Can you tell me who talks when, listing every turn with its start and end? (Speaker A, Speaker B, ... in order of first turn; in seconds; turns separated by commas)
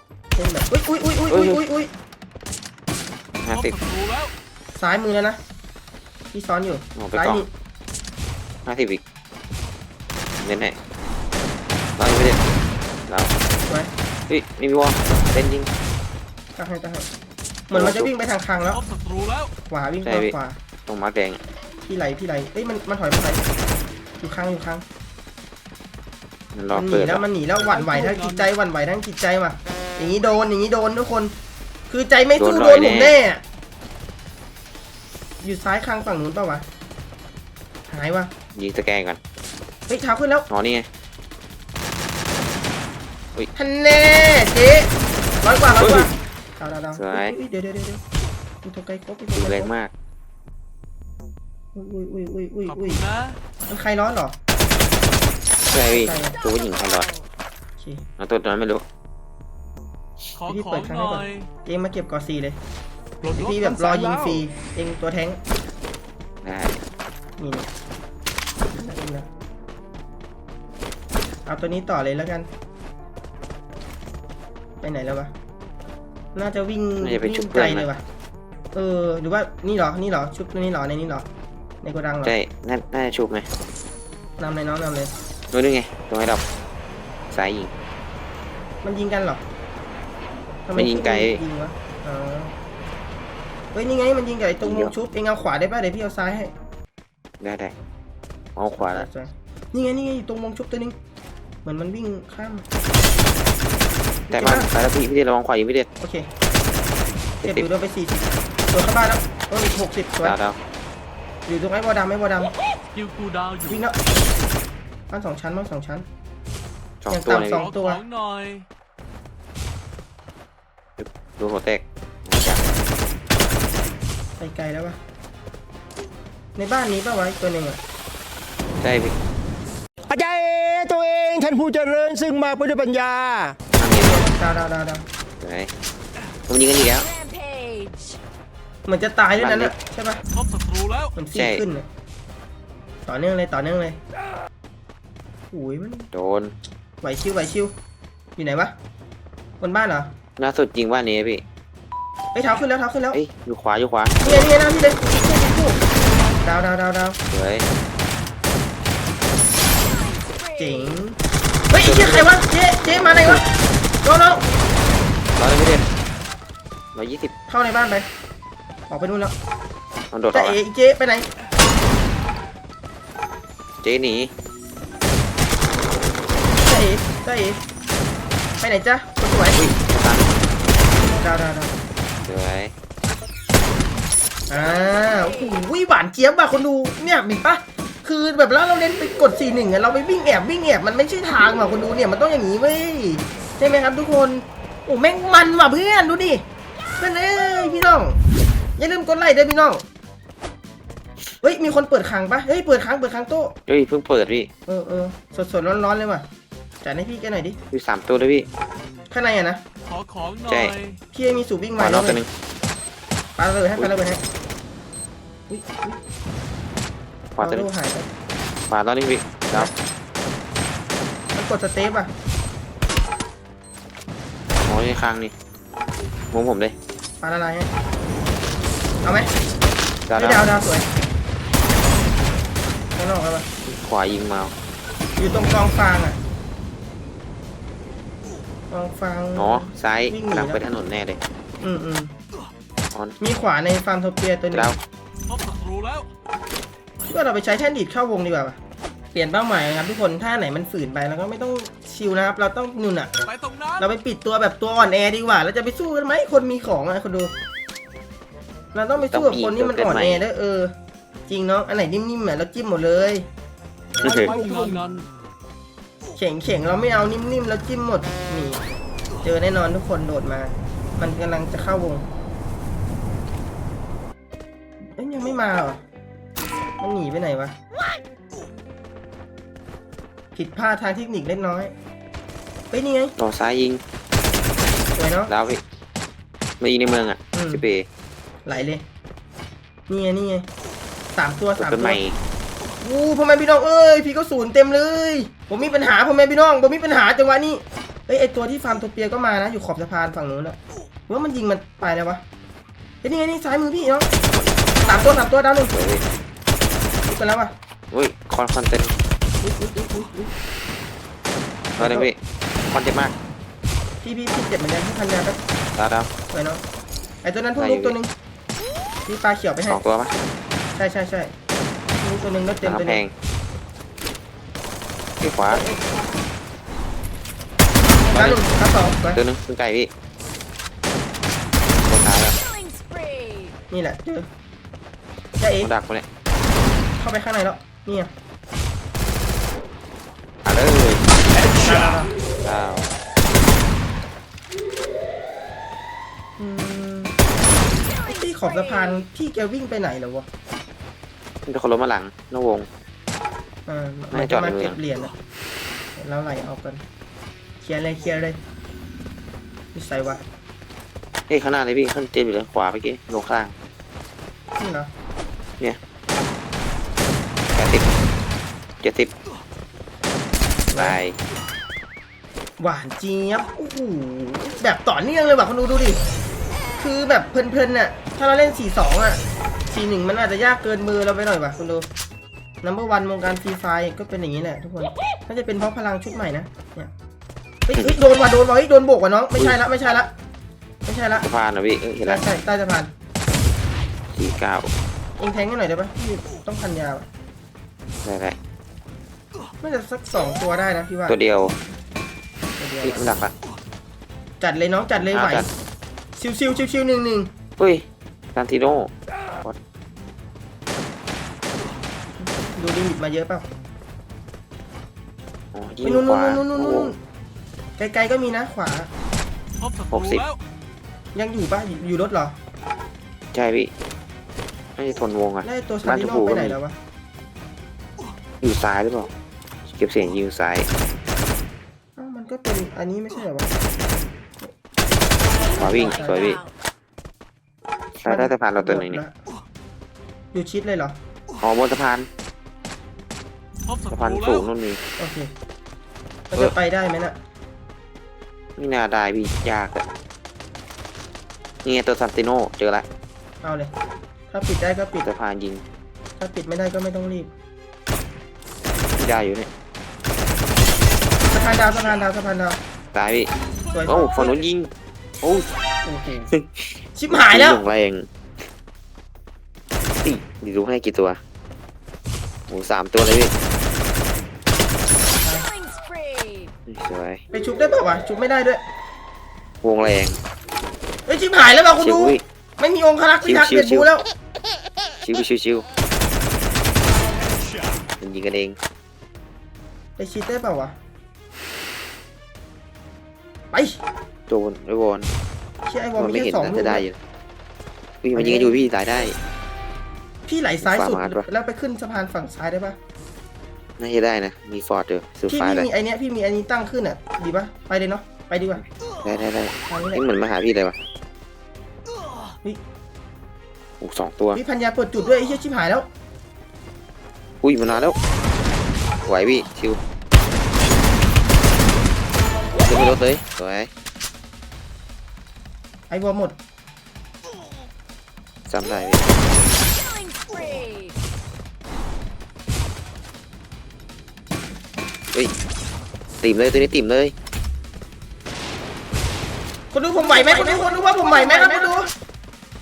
Speaker A: 0.4-1.9, Speaker B: 1.3-1.6, Speaker B: 3.5-3.8, Speaker C: 3.5-4.3, Speaker A: 4.8-5.4, Speaker A: 6.3-7.5, Speaker B: 7.0-7.5, Speaker B: 8.7-9.0, Speaker B: 10.4-10.8, Speaker B: 12.0-12.4, Speaker B: 13.1-13.3, Speaker B: 14.3-15.7, Speaker A: 16.6-17.1, Speaker A: 17.7-18.8, Speaker B: 17.7-18.1, Speaker C: 18.7-19.5, Speaker A: 19.7-20.6, Speaker B: 20.0-20.4, Speaker B: 20.9-21.4, Speaker A: 21.9-23.4, Speaker A: 24.2-24.9, Speaker B: 26.6-27.2, Speaker A: 26.7-31.3, Speaker C: 27.6-28.5, Speaker A: 31.9-33.4, Speaker B: 32.4-33.2, Speaker A: 35.4-36.6, Speaker A: 37.9-38.3, Speaker B: 38.5-39.2, Speaker A: 39.9-40.5, Speaker B: 40.5-40.9, Speaker A: 43.5-48.0, Speaker B: 45.8-46.1, Speaker B: 47.0-47.3, Speaker A: 48.6-49.7, Speaker B: 49.4-49.9, Speaker A: 51.8-53.0, Speaker C: 52.7-53.4, Speaker A: 53.7-54.4, Speaker B: 55.7-57.1, Speaker A: 55.9-56.4, Speaker D: 56.4-57.3, Speaker A: 57.8-58.0, Speaker B: 58.2-58.9, Speaker C: 60.4-61.5, Speaker A: 60.5-62.6, Speaker C: 63.2-63.6, Speaker A: 63.3-65.4, Speaker E: 63.4-64.5, Speaker B: 66.4-66.8, Speaker A: 67.4-67.7, Speaker A: 68.7-69.3, Speaker A: 71.5-72.5, Speaker A: 74.8-75.3, Speaker A: 76.3-78.0, Speaker B: 77.0-77.9, Speaker A: 78.7-81.3, Speaker A: 81.8-82.4, Speaker B: 82.2-83.5, Speaker A: 84.4-85.1, Speaker B: 85.5-86.4, Speaker B: 87.3-87.7, Speaker A: 88.8-89.4, Speaker A: 90.7-92.5, Speaker B: 90.8-91.4, Speaker A: 93.7-96.5, Speaker B: 94.6-94.9, Speaker B: 97.4-97.8, Speaker B: 98.5-99.1, Speaker A: 98.7-101.0, Speaker A: 101.7-102.7, Speaker A: 104.3-104.7, Speaker B: 104.3-105.9, Speaker A: 106.0-106.3, Speaker B: 107.4-107.7, Speaker A: 107.4-110.4, Speaker B: 110.2-110.6, Speaker A: 111.5-112.5, Speaker C: 112.9-113.9, Speaker A: 113.7-114.0, Speaker A: 115.1-116.1, Speaker B: 117.0-117.7, Speaker A: 117.1-118.0, Speaker C: 117.5-118.7, Speaker B: 121.0-122.6, Speaker A: 124.4-125.0, Speaker A: 126.6-127.8, Speaker B: 128.8-129.2, Speaker E: 130.1-133.6, Speaker B: 133.8-134.3, Speaker A: 133.9-135.1, Speaker B: 135.4-135.7, Speaker B: 136.5-137.1, Speaker D: 137.0-138.2, Speaker A: 138.9-140.2, Speaker B: 139.4-139.8, Speaker C: 140.3-141.1, Speaker A: 141.2-141.9, Speaker B: 141.3-141.6, Speaker A: 143.1-144.0, Speaker A: 145.5-146.1, Speaker B: 146.1-146.5, Speaker A: 147.0-147.7, Speaker A: 148.4-148.7, Speaker A: 149.6-150.1, Speaker B: 150.4-151.4, Speaker A: 152.3-153.2, Speaker B: 153.1-154.5, Speaker A: 154.2-155.8, Speaker A: 156.4-157.2, Speaker B: 157.3-157.7, Speaker D: 159.7-161.0, Speaker A: 160.6-161.2, Speaker A: 161.7-163.5, Speaker B: 161.7-163.4, Speaker A: 164.0-164.4, Speaker B: 165.4-165.9, Speaker B: 166.9-167.3, Speaker A: 167.5-168.1, Speaker A: 168.9-169.3, Speaker B: 170.1-170.6, Speaker A: 170.3-171.3, Speaker B: 173.8-174.3, Speaker A: 176.6-177.6, Speaker A: 178.6-179.6, Speaker B: 179.5-180.3, Speaker A: 181.0-181.7, Speaker B: 182.2-182.7, Speaker A: 184.5-196.4, Speaker D: 184.5-185.7, Speaker A: 197.0-198.2, Speaker A: 198.8-199.8, Speaker A: 201.4-203.6, Speaker B: 203.7-204.5, Speaker A: 204.7-206.3, Speaker A: 206.8-207.6, Speaker B: 207.7-208.5, Speaker A: 209.1-209.6, Speaker C: 209.9-211.0, Speaker B: 210.5-210.8, Speaker A: 211.1-212.2, Speaker B: 211.8-212.3, Speaker A: 213.4-214.2, Speaker A: 215.5-216.0, Speaker B: 217.4-217.7, Speaker A: 217.4-218.1, Speaker B: 218.7-219.7, Speaker A: 221.3-222.1, Speaker B: 224.7-225.3, Speaker B: 226.3-226.8, Speaker A: 227.2-227.7, Speaker A: 229.0-229.3, Speaker B: 230.1-230.4, Speaker A: 230.2-231.0, Speaker A: 233.0-233.5, Speaker B: 233.7-234.5, Speaker A: 235.2-236.2, Speaker A: 238.7-240.6, Speaker B: 239.4-241.2, Speaker A: 241.6-242.1, Speaker A: 243.2-244.8, Speaker B: 244.5-244.8, Speaker C: 245.3-246.1, Speaker A: 247.0-248.6, Speaker A: 249.1-253.1, Speaker C: 253.2-253.9, Speaker A: 253.8-257.3, Speaker A: 258.7-260.7, Speaker B: 259.0-260.2, Speaker A: 261.3-263.3, Speaker B: 264.0-264.3, Speaker C: 264.0-265.1, Speaker E: 264.0-264.9, Speaker A: 266.2-268.6, Speaker A: 269.2-272.1, Speaker A: 274.9-275.8, Speaker A: 276.8-277.6, Speaker A: 280.4-281.7, Speaker A: 282.7-283.1, Speaker B: 283.2-283.8, Speaker A: 285.0-285.3, Speaker B: 285.3-285.6, Speaker B: 286.6-287.9, Speaker A: 287.3-287.6, Speaker A: 288.5-288.8, Speaker A: 289.9-290.5, Speaker A: 291.2-292.0, Speaker B: 291.6-292.2, Speaker A: 292.8-302.2, Speaker A: 303.0-304.1, Speaker A: 304.9-305.7, Speaker B: 305.7-306.0, Speaker A: 307.1-307.5, Speaker B: 307.9-309.0, Speaker A: 309.4-310.3, Speaker A: 311.8-312.1, Speaker B: 311.8-312.2, Speaker B: 312.7-313.2, Speaker A: 314.0-315.4, Speaker B: 315.8-316.1, Speaker A: 316.3-316.6, Speaker A: 317.2-318.1, Speaker B: 317.6-318.0, Speaker A: 319.1-319.8, Speaker B: 319.7-320.2, Speaker A: 320.8-321.3, Speaker A: 322.0-323.0, Speaker B: 322.6-323.1, Speaker B: 325.2-325.6, Speaker A: 325.5-325.9, Speaker A: 328.0-329.2, Speaker B: 328.1-328.5, Speaker B: 329.1-329.9, Speaker B: 331.8-332.4, Speaker D: 332.2-333.6, Speaker A: 333.7-334.3, Speaker A: 335.4-335.7, Speaker B: 335.6-336.1, Speaker A: 337.0-338.1, Speaker B: 340.4-341.1, Speaker A: 341.4-342.1, Speaker B: 342.4-342.9, Speaker A: 346.4-347.1, Speaker D: 347.9-349.1, Speaker A: 348.0-350.3, Speaker B: 351.5-352.7, Speaker A: 353.7-355.1, Speaker B: 354.1-354.8, Speaker A: 356.0-356.8, Speaker A: 357.6-358.4, Speaker A: 359.7-360.2, Speaker B: 361.3-363.6, Speaker A: 364.6-364.9, Speaker B: 367.5-367.9, Speaker B: 368.8-369.1, Speaker A: 370.7-371.0, Speaker B: 370.8-371.2, Speaker A: 372.6-376.0, Speaker A: 376.8-381.9, Speaker A: 382.6-386.9, Speaker A: 387.7-390.1, Speaker A: 390.9-391.3, Speaker B: 391.2-392.3, Speaker A: 392.1-392.9, Speaker B: 394.1-394.7, Speaker A: 395.2-397.1, Speaker B: 398.0-398.4, Speaker A: 399.6-401.2, Speaker B: 401.1-401.6, Speaker A: 402.6-403.1, Speaker B: 402.8-403.3, Speaker A: 404.4-405.5, Speaker B: 405.0-405.5, Speaker A: 406.2-407.3, Speaker B: 407.6-409.6, Speaker A: 412.2-413.5, Speaker B: 415.5-416.9, Speaker A: 415.8-417.0, Speaker A: 417.8-418.9, Speaker C: 419.6-420.4, Speaker B: 419.9-420.2, Speaker A: 421.1-422.4, Speaker B: 423.3-423.7, Speaker B: 424.8-426.6, Speaker A: 425.4-426.8, Speaker B: 428.4-429.1, Speaker B: 429.7-430.7, Speaker A: 432.0-433.5, Speaker D: 435.3-436.5, Speaker A: 435.5-436.4, Speaker B: 435.6-436.4, Speaker B: 438.0-439.0, Speaker A: 438.1-439.2, Speaker A: 440.3-441.0, Speaker B: 441.4-442.1, Speaker C: 443.6-444.5, Speaker B: 443.9-444.8, Speaker A: 445.0-445.3, Speaker A: 446.3-447.2, Speaker B: 448.6-449.8, Speaker B: 451.6-452.9, Speaker A: 453.4-453.7, Speaker A: 454.3-455.1, Speaker B: 455.0-455.6, Speaker A: 456.2-457.3, Speaker B: 459.0-459.5, Speaker A: 461.3-462.6, Speaker B: 462.9-463.3, Speaker A: 463.7-464.4, Speaker B: 463.9-464.7, Speaker B: 465.2-465.5, Speaker A: 465.9-466.3, Speaker B: 466.3-468.1, Speaker A: 467.0-467.6, Speaker B: 470.0-471.2, Speaker B: 472.5-473.3, Speaker A: 475.2-475.5, Speaker D: 475.3-476.5, Speaker B: 476.7-477.2, Speaker A: 477.3-478.6, Speaker B: 479.6-480.2, Speaker A: 481.1-484.1, Speaker B: 481.8-482.2, Speaker B: 483.2-483.9, Speaker B: 485.0-485.7, Speaker B: 488.0-488.6, Speaker A: 490.0-490.8, Speaker A: 493.5-493.8, Speaker B: 494.3-495.1, Speaker A: 495.7-496.9, Speaker B: 496.0-497.0, Speaker B: 498.0-499.2, Speaker A: 498.1-498.6, Speaker A: 500.3-502.8, Speaker B: 500.6-501.3, Speaker B: 503.8-505.7, Speaker A: 505.3-508.6, Speaker B: 509.0-510.8, Speaker A: 509.7-510.0, Speaker B: 513.8-514.4, Speaker A: 514.3-515.9, Speaker B: 517.4-518.0, Speaker B: 519.1-519.8, Speaker B: 522.6-523.7, Speaker A: 525.9-526.4, Speaker B: 528.5-529.1, Speaker D: 529.7-531.0, Speaker B: 536.2-537.1, Speaker A: 539.7-541.9, Speaker D: 540.2-541.7